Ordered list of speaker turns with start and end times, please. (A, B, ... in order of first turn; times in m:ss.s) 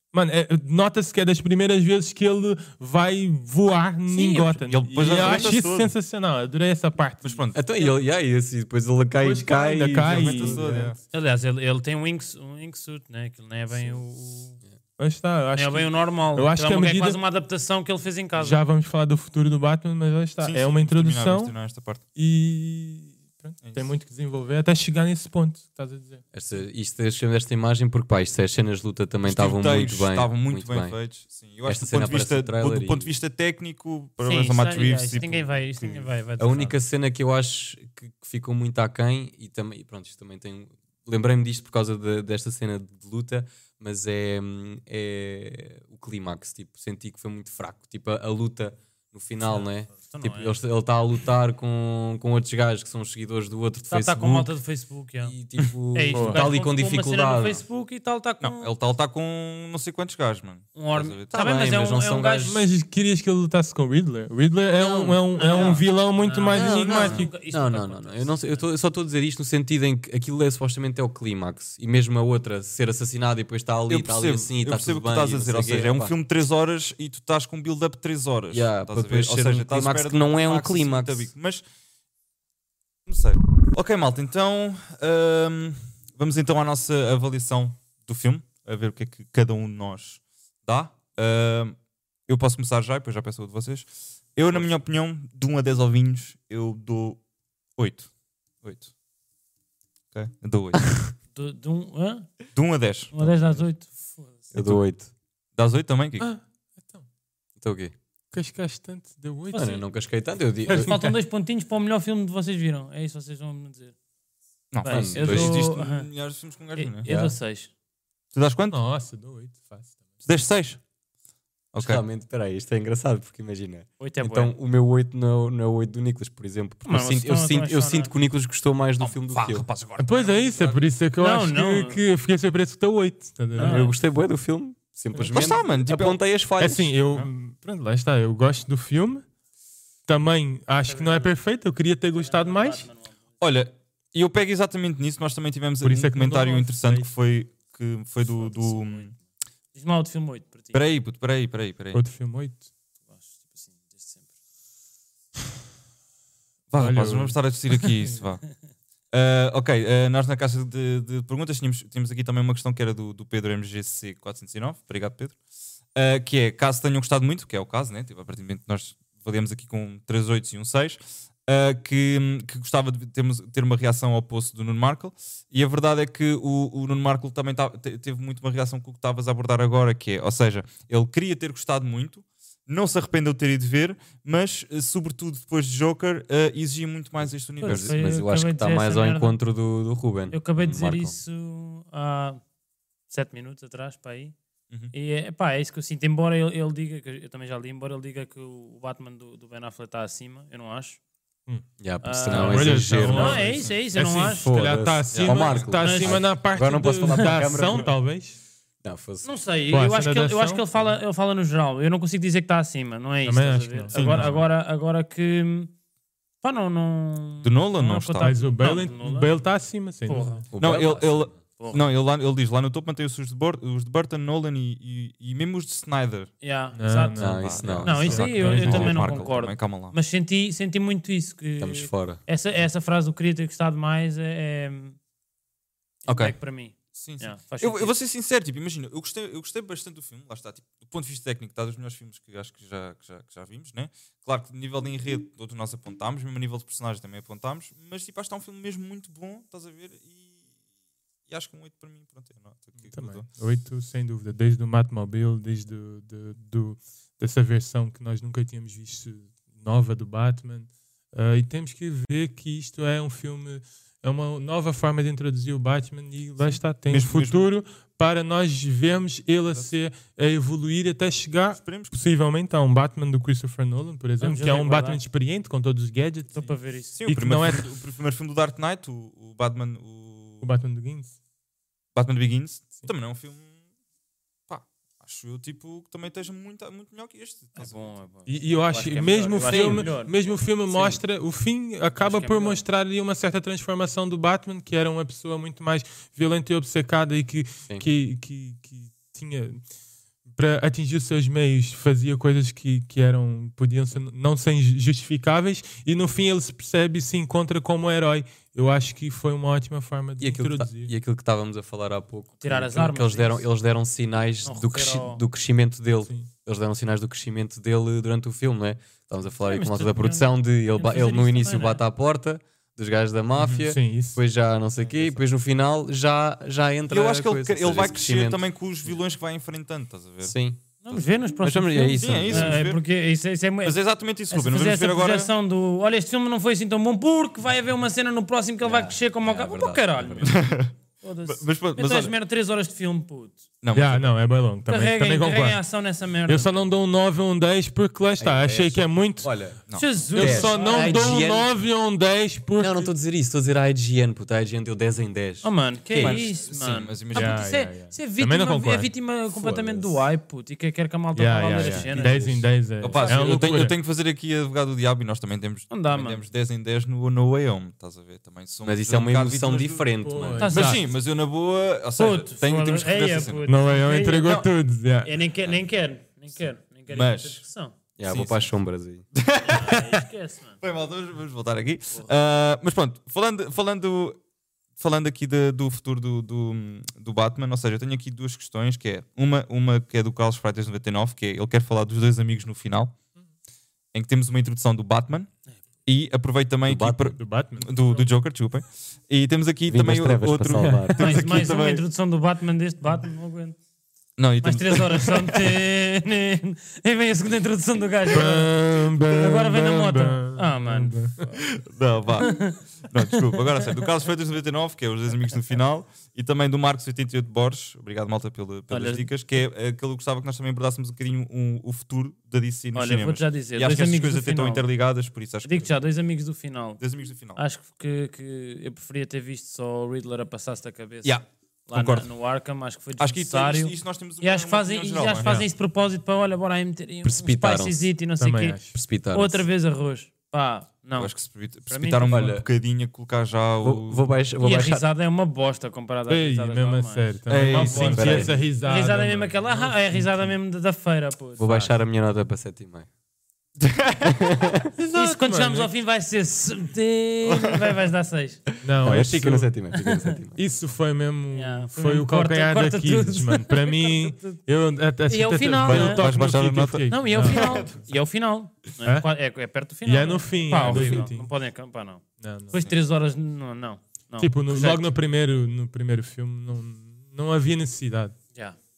0:00.1-0:07.4 A
0:04.1-0:04.6 B
0:04.6-0:05.9 C
0:05.1-0:05.4 B
0:07.2-0:07.6 C
0:07.5-0:10.8 D
0:09.2-0:10.9 A
0:09.9-0:11.0 C
0:11.1-0:14.6 B
0:15.0-0:17.2 A
0:15.5-0:18.6 B
0:18.4-0:21.5 A
0:20.4-0:22.0 C
0:22.2-0:26.2 A
0:23.6-0:23.9 C
0:26.3-0:31.0 D
0:29.2-0:36.1 C
0:31.6-0:33.2 D
0:34.2-0:36.7 B
0:36.4-0:54.5 D
0:49.4-0:50.6 B
0:53.9-0:55.3 B
0:55.2-0:57.6 D
0:55.9-0:58.7 B
0:56.1-0:56.4 A
0:58.4-1:01.4 C
1:00.7-1:02.6 B
1:01.3-1:02.6 D
1:02.4-1:07.3 A
1:04.7-1:05.8 D
1:05.3-1:08.7 B
1:06.5-1:16.1 D
1:13.9-1:21.6 C
1:18.5-1:21.3 D
1:23.1-1:31.8 C
1:32.3-1:37.2 C
1:37.8-1:38.1 C
1:38.6-1:38.9 C
1:40.1-1:40.9 C
1:41.3-1:42.3 B
1:42.5-1:43.5 C
1:43.1-1:44.5 B
1:44.5-1:44.8 C
1:44.5-1:45.1 D
1:45.5-1:46.3 C
1:46.2-1:47.0 A
1:47.6-1:47.9 D
1:48.3-1:49.8 A
1:49.5-1:51.0 D
1:50.7-1:51.2 A
1:50.7-1:53.9 B
1:54.7-1:57.1 C
1:54.8-1:56.1 B
1:54.8-1:55.6 D
1:56.8-1:57.7 B
1:57.0-1:57.4 D
1:58.3-1:58.8 C
1:58.7-2:00.0 A
2:00.2-2:00.8 C
2:01.7-2:02.0 C
2:01.8-2:09.6 D
2:04.0-2:04.5 B
2:06.8-2:08.1 B
2:09.0-2:10.9 C
2:10.0-2:13.9 A
2:11.2-2:12.0 B
2:13.6-2:13.9 B
2:13.6-2:16.9 D
2:15.3-2:16.2 C
2:16.6-2:19.2 A
2:20.1-2:22.9 A
2:20.8-2:21.4 B
2:22.1-2:23.2 B
2:23.4-2:29.1 C
2:25.8-2:27.1 A
2:28.3-2:29.2 B
2:29.7-2:30.8 B
2:30.7-2:32.0 C
2:31.9-2:32.6 A
2:33.1-2:34.3 B
2:36.7-2:38.4 C
2:36.8-2:37.4 A
2:39.1-2:45.4 C
2:45.9-3:08.0 C
3:07.6-3:09.4 B
3:07.6-3:11.2 D
3:10.3-3:12.4 B
3:13.1-3:14.3 B
3:14.9-3:21.0 B
3:21.8-3:23.6 D
3:22.0-3:24.5 B
3:22.3-3:28.4 A
3:24.2-3:27.9 D
3:25.1-3:25.7 C
3:25.8-3:26.2 B
3:27.0-3:27.3 B
3:28.8-3:29.3 D
3:29.2-3:35.7 B
3:29.7-3:30.6 A
3:33.2-3:34.4 A
3:33.9-3:34.3 C
3:36.4-3:39.4 B
3:37.4-3:38.3 C
3:38.2-3:40.4 A
3:40.0-3:41.8 B
3:40.5-3:41.4 D
3:40.6-3:46.3 C
3:46.4-3:55.0 B
3:46.8-3:49.2 A
3:47.2-3:48.9 D
3:47.3-3:49.9 C
3:51.6-3:52.2 D
3:56.0-3:57.9 B
3:56.1-3:56.3 C
3:56.9-4:10.4 C
4:11.3-4:13.3 C
4:12.9-4:36.5 A
4:26.4-4:27.5 C
4:31.6-4:31.9 C
4:34.2-4:35.0 B
4:36.3-4:37.0 B
4:36.9-4:40.4 C
4:37.1-4:37.7 A
4:40.4-4:41.1 A
4:41.9-4:43.5 C
4:44.5-4:47.9 C
4:47.6-4:51.0 B
4:48.2-4:59.6 A
4:49.4-4:49.9 C
4:51.9-4:52.6 B
5:00.3-5:10.9 A
5:10.2-5:29.0 D
5:12.4-5:13.4 B
5:14.4-5:15.2 B
5:19.4-5:21.8 B
5:23.4-5:23.6 C
5:23.6-5:24.2 A
5:26.9-5:31.1 C
5:30.2-5:30.6 D
5:30.8-5:40.4 B
5:31.4-5:32.6 D
5:32.0-5:32.8 C
5:33.6-5:35.3 C
5:38.6-5:40.3 D
5:40.2-5:40.7 C
5:41.0-5:43.4 B
5:41.2-5:42.1 C
5:43.6-5:44.1 C
5:43.7-5:45.6 A
5:44.7-5:46.6 B
5:46.3-5:49.3 A
5:48.2-5:49.6 D
5:49.7-5:51.2 B
5:50.1-5:51.5 D
5:50.1-5:52.9 A
5:52.6-5:56.3 D
5:55.4-6:03.3 B
5:55.9-5:57.4 C
5:57.1-5:58.9 A
5:59.3-6:00.0 D
6:01.1-6:03.7 A
6:02.8-6:13.4 C
6:05.7-6:06.2 B
6:08.6-6:10.5 D
6:10.0-6:10.8 A
6:10.4-6:10.8 B
6:12.0-6:14.4 B
6:13.4-6:15.1 A
6:14.0-6:14.5 C
6:15.0-6:17.8 B
6:16.9-6:17.4 C
6:18.0-6:19.0 D
6:18.1-6:18.5 C
6:19.1-6:20.0 C
6:19.4-6:20.6 B
6:20.6-6:24.2 C
6:24.8-6:33.0 C
6:33.9-6:35.3 C
6:35.8-6:41.8 C
6:36.6-6:37.2 D
6:37.2-6:37.7 A
6:39.7-6:41.5 D
6:41.0-6:43.6 B
6:44.2-6:45.6 C
6:44.4-6:51.3 B
6:48.1-6:51.3 A
6:51.4-7:05.7 C
6:52.2-6:53.7 B
6:58.7-6:59.1 B
7:02.7-7:04.6 B
7:05.4-7:06.8 B
7:06.8-7:07.4 C
7:07.4-7:18.6 B
7:11.0-7:12.1 C
7:13.0-7:15.4 C
7:15.2-7:15.5 A
7:17.0-7:17.9 D
7:18.2-7:18.8 A
7:18.7-7:19.5 D
7:19.1-7:21.1 B
7:21.0-7:24.1 C
7:21.7-7:22.3 B
7:22.1-7:22.4 D
7:23.6-7:24.9 D
7:24.4-7:28.0 B
7:26.1-7:30.4 A
7:27.3-7:28.4 C
7:27.7-7:28.3 D
7:28.6-7:31.7 B
7:31.4-7:32.9 D
7:33.6-7:34.6 C
7:34.0-7:34.7 D
7:34.8-7:35.7 A
7:34.9-7:38.4 B
7:37.2-7:37.6 C
7:38.6-7:39.6 A
7:38.8-7:40.4 D
7:39.7-7:40.2 B
7:40.3-7:47.6 A
7:41.3-7:44.4 B
7:45.1-7:46.1 B
7:45.6-7:47.8 C
7:46.9-7:54.8 B
7:49.8-7:51.3 A
7:50.6-7:51.0 C
7:52.2-7:52.7 A
7:54.2-7:58.2 A